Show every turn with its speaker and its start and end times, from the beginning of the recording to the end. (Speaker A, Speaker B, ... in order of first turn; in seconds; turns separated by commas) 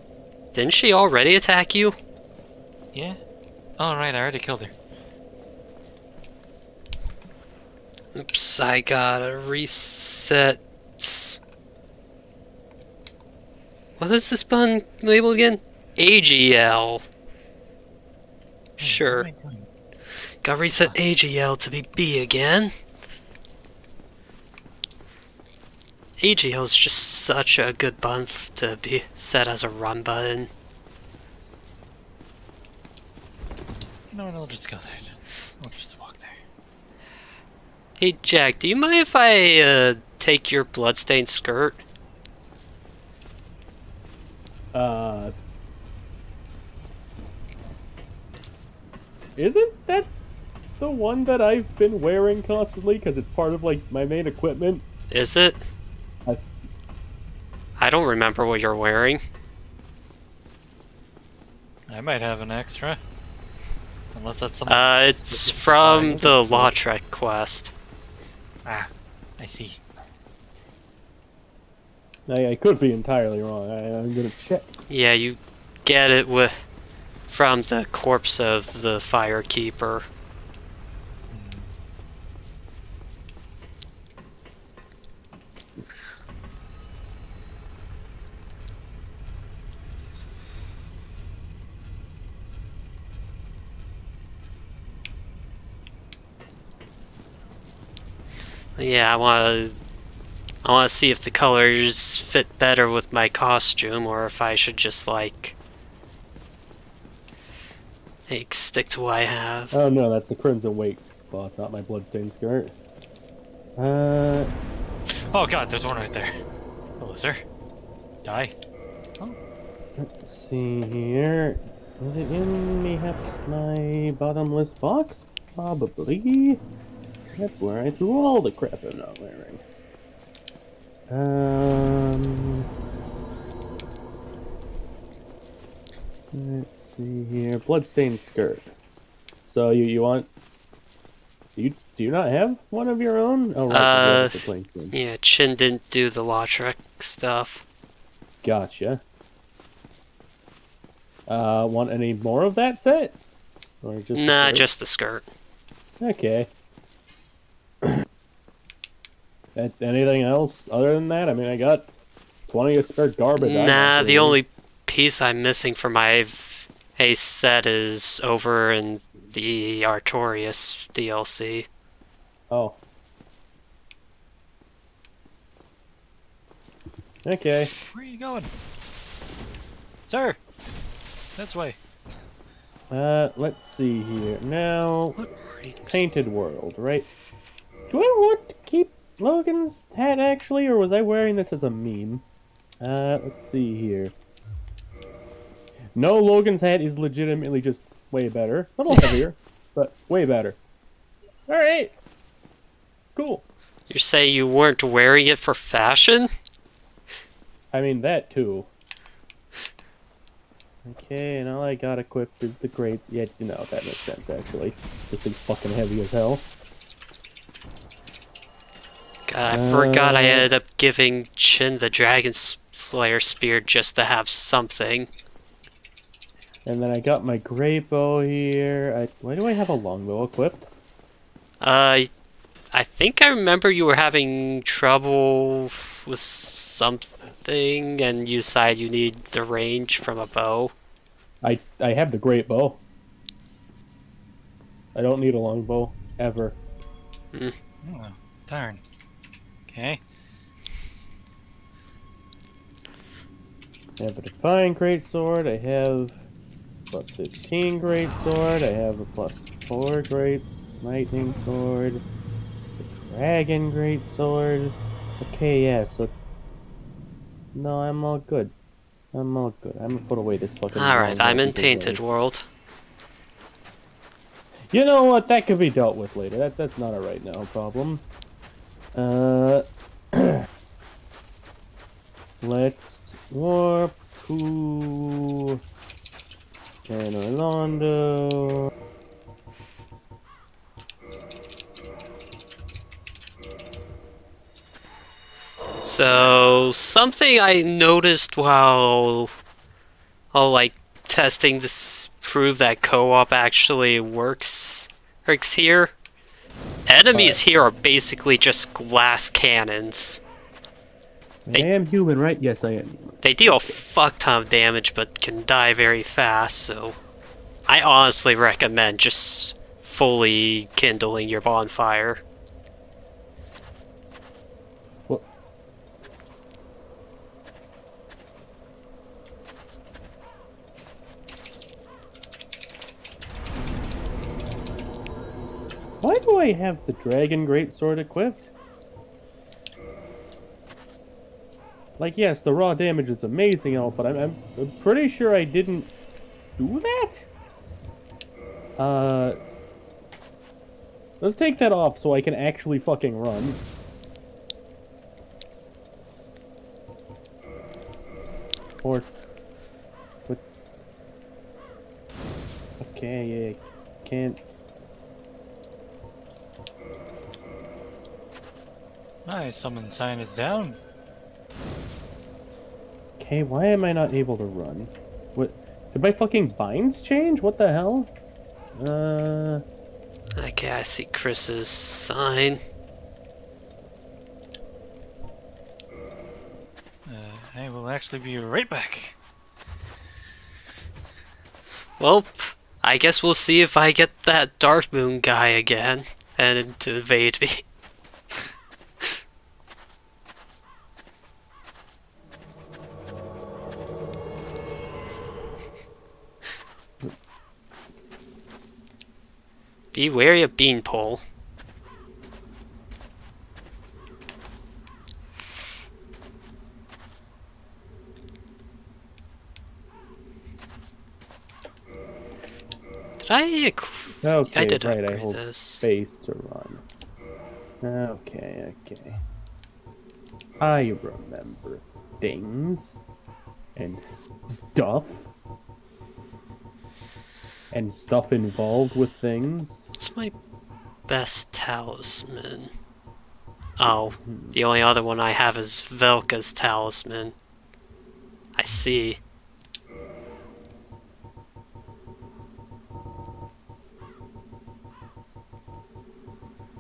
Speaker A: 0.5-2.0, Speaker B: 2.9-3.2, Speaker B: 3.8-4.7, Speaker A: 8.2-11.4, Speaker A: 14.0-17.1, Speaker A: 18.8-19.3, Speaker B: 18.8-19.7, Speaker A: 20.4-22.7, Speaker A: 26.2-30.5, Speaker B: 34.1-36.4, Speaker A: 38.0-41.8, Speaker C: 44.7-45.3, Speaker C: 49.4-50.1, Speaker C: 50.8-54.8, Speaker A: 55.1-55.7, Speaker A: 57.8-59.2, Speaker B: 61.9-63.0, Speaker B: 64.1-66.7, Speaker A: 64.7-67.7, Speaker C: 66.0-66.7, Speaker B: 68.7-69.8, Speaker C: 72.3-74.7, Speaker A: 74.9-76.5, Speaker A: 77.3-80.1, Speaker B: 81.3-81.7, Speaker A: 98.8-99.8, Speaker A: 100.6-105.5, Speaker A: 108.3-109.7, Speaker C: 109.7-112.8, Speaker C: 113.8-114.5, Speaker B: 115.3-116.4, Speaker B: 117.0-117.4, Speaker B: 118.2-118.5, Speaker C: 120.0-126.6, Speaker C: 127.3-129.6, Speaker C: 131.1-132.7, Speaker C: 136.3-138.7, Speaker C: 139.5-140.3, Speaker C: 141.6-144.9, Speaker A: 143.7-144.4, Speaker A: 144.9-147.6, Speaker C: 148.4-149.0, Speaker C: 151.3-153.2, Speaker C: 153.8-154.7, Speaker A: 154.1-155.3, Speaker C: 156.0-156.5, Speaker C: 159.6-161.9, Speaker C: 162.5-164.4, Speaker A: 163.3-171.7, Speaker C: 172.5-172.8, Speaker C: 177.2-177.7, Speaker B: 177.9-178.5, Speaker B: 180.1-180.4, Speaker B: 181.4-181.8, Speaker C: 182.9-185.2, Speaker A: 185.2-186.0, Speaker C: 185.9-187.1, Speaker C: 187.9-192.2, Speaker C: 192.8-194.1, Speaker C: 195.9-200.6, Speaker A: 198.9-199.2, Speaker C: 201.5-201.9, Speaker C: 203.2-203.4, Speaker A: 203.9-206.3, Speaker C: 207.7-208.7, Speaker C: 210.8-216.5, Speaker A: 219.3-225.1, Speaker C: 219.5-220.5, Speaker C: 226.7-230.7, Speaker A: 231.6-232.1, Speaker A: 232.7-240.7, Speaker C: 241.4-242.8, Speaker C: 244.9-246.6, Speaker B: 247.8-248.8, Speaker B: 249.7-250.0, Speaker C: 254.0-256.2, Speaker C: 256.9-262.0, Speaker C: 262.8-266.1, Speaker C: 267.5-268.5, Speaker C: 269.1-272.0, Speaker A: 270.7-272.5, Speaker C: 274.7-278.0, Speaker C: 278.9-280.4, Speaker C: 282.4-285.6, Speaker C: 286.9-288.7, Speaker A: 295.8-299.3, Speaker A: 300.3-305.9, Speaker A: 306.9-310.2, Speaker C: 307.1-307.4, Speaker C: 311.5-313.8, Speaker A: 313.2-317.0, Speaker A: 317.7-322.2, Speaker C: 336.0-338.5, Speaker C: 342.0-345.9, Speaker C: 346.6-347.3, Speaker C: 348.8-349.4, Speaker C: 351.2-353.6, Speaker C: 358.8-359.1, Speaker C: 362.8-364.4, Speaker B: 369.3-370.8, Speaker C: 373.2-378.1, Speaker C: 378.8-379.6, Speaker A: 380.4-382.6, Speaker B: 387.1-389.2, Speaker A: 392.0-397.6, Speaker A: 409.9-411.2, Speaker A: 423.2-425.9, Speaker C: 424.2-426.8, Speaker C: 427.8-429.2, Speaker C: 430.6-433.1, Speaker C: 433.8-435.3, Speaker C: 437.7-439.9, Speaker A: 440.0-440.3, Speaker A: 441.1-442.7, Speaker A: 443.8-447.4, Speaker C: 444.2-444.6, Speaker A: 448.6-449.2